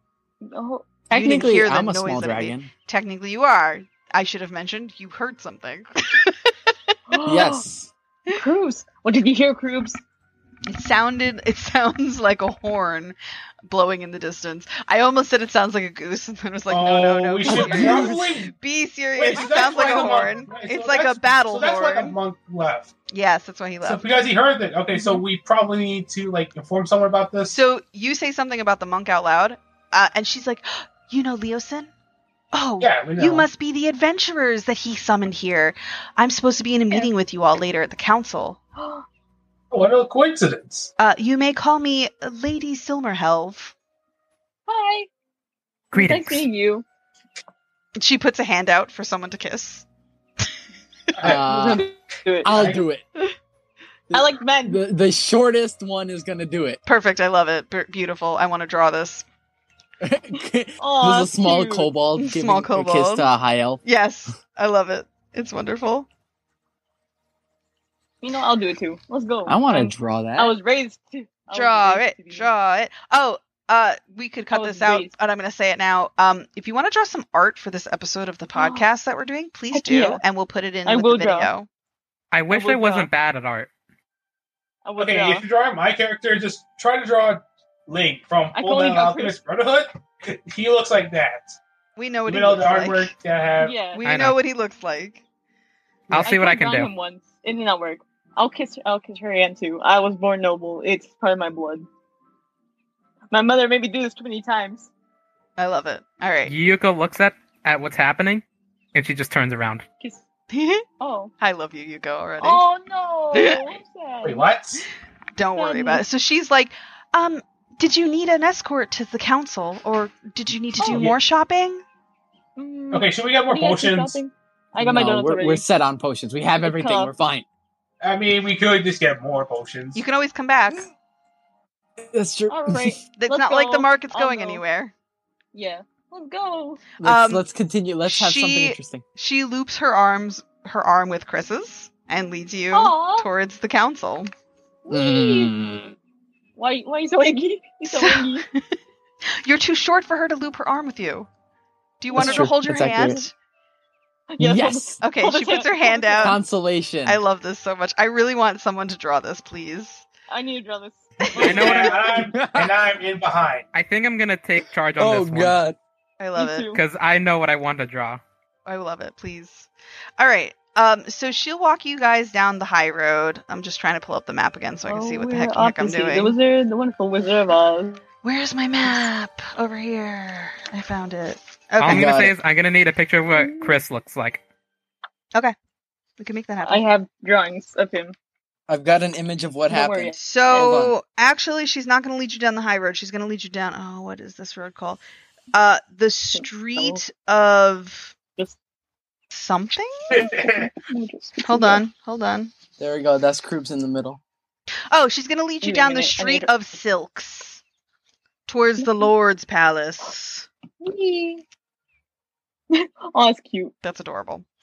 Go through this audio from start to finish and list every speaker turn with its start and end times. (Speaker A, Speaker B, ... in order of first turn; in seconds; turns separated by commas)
Speaker A: 0.5-1.1, Speaker B: 1.1-2.7, Speaker C: 1.1-6.7, Speaker A: 7.1-7.6, Speaker B: 7.2-7.9, Speaker A: 8.3-10.0, Speaker C: 10.7-13.2, Speaker C: 13.7-22.2, Speaker D: 16.7-18.5, Speaker B: 17.4-18.4, Speaker D: 19.2-22.9, Speaker A: 19.4-20.3, Speaker C: 23.1-24.0, Speaker D: 23.8-27.6, Speaker A: 24.9-25.2, Speaker C: 27.5-31.9, Speaker C: 32.5-38.6, Speaker D: 32.8-33.5, Speaker A: 38.8-39.0, Speaker D: 39.7-40.9, Speaker C: 41.0-43.7, Speaker A: 44.7-45.1, Speaker E: 45.9-46.5, Speaker A: 45.9-46.9, Speaker C: 48.0-49.9, Speaker D: 51.2-51.8, Speaker B: 51.2-51.9, Speaker A: 51.3-52.5, Speaker B: 52.4-53.0, Speaker D: 52.5-52.8, Speaker B: 54.1-56.8, Speaker A: 54.1-54.8, Speaker C: 56.9-59.2, Speaker B: 60.0-63.8, Speaker A: 60.8-61.9, Speaker C: 62.2-63.3, Speaker C: 63.8-66.1, Speaker A: 68.2-72.5, Speaker B: 69.5-70.5, Speaker C: 71.5-81.7, Speaker A: 74.5-75.1, Speaker A: 78.5-78.9, Speaker A: 79.7-80.2, Speaker A: 80.9-81.5, Speaker E: 82.3-83.7, Speaker A: 82.5-83.1, Speaker A: 84.8-85.4, Speaker D: 85.0-91.6, Speaker A: 88.5-89.4, Speaker C: 92.0-93.1, Speaker D: 92.3-93.8, Speaker A: 93.6-94.0, Speaker C: 93.9-95.2, Speaker E: 94.0-94.4, Speaker E: 96.1-96.9, Speaker A: 96.1-101.9, Speaker A: 103.3-104.9, Speaker C: 105.6-106.5, Speaker E: 106.5-109.8, Speaker C: 110.5-110.8, Speaker A: 111.0-111.3, Speaker C: 111.4-112.6, Speaker A: 112.4-114.5, Speaker C: 113.3-113.7, Speaker D: 114.2-114.9, Speaker C: 115.4-121.8, Speaker A: 115.5-116.0, Speaker A: 120.8-121.1, Speaker B: 120.8-121.1, Speaker A: 122.6-125.6, Speaker D: 122.9-124.2, Speaker B: 124.8-127.5, Speaker A: 126.6-127.1, Speaker D: 128.0-130.0, Speaker C: 129.9-130.9, Speaker B: 132.0-133.0, Speaker A: 132.5-134.6, Speaker C: 133.2-134.9, Speaker A: 135.5-136.8, Speaker B: 137.0-139.0, Speaker C: 137.0-137.4, Speaker C: 138.1-144.3, Speaker A: 142.7-143.3, Speaker A: 144.8-145.6, Speaker B: 144.9-145.9, Speaker A: 146.6-148.4, Speaker C: 147.9-148.6, Speaker C: 149.4-151.3, Speaker C: 152.0-153.3, Speaker A: 152.1-152.5, Speaker B: 152.1-153.2, Speaker A: 154.3-156.4, Speaker B: 154.4-155.0, Speaker C: 155.0-156.4, Speaker B: 156.2-157.2, Speaker C: 157.1-160.1, Speaker A: 160.3-161.9, Speaker C: 161.3-161.9, Speaker D: 161.4-163.7, Speaker E: 161.4-162.0, Speaker B: 162.1-162.8, Speaker E: 163.7-165.6, Speaker B: 165.0-165.8, Speaker C: 166.2-166.7, Speaker A: 166.3-166.8, Speaker E: 166.7-168.2, Speaker C: 168.7-176.3, Speaker A: 174.9-178.0, Speaker C: 178.2-182.1, Speaker E: 181.8-184.4, Speaker B: 181.8-182.3, Speaker A: 183.3-183.8, Speaker C: 186.2-186.8, Speaker A: 186.6-188.1, Speaker B: 188.7-190.9, Speaker A: 189.7-190.8, Speaker C: 190.2-195.0, Speaker C: 195.5-198.1, Speaker A: 196.3-197.0, Speaker C: 199.3-200.2, Speaker D: 200.1-200.7, Speaker A: 200.2-201.8, Speaker C: 201.4-202.5, Speaker B: 202.8-204.2, Speaker C: 204.9-207.6, Speaker A: 205.6-206.5, Speaker C: 208.5-210.5, Speaker A: 208.8-209.1, Speaker A: 210.8-211.4, Speaker A: 212.7-213.7, Speaker C: 213.8-214.4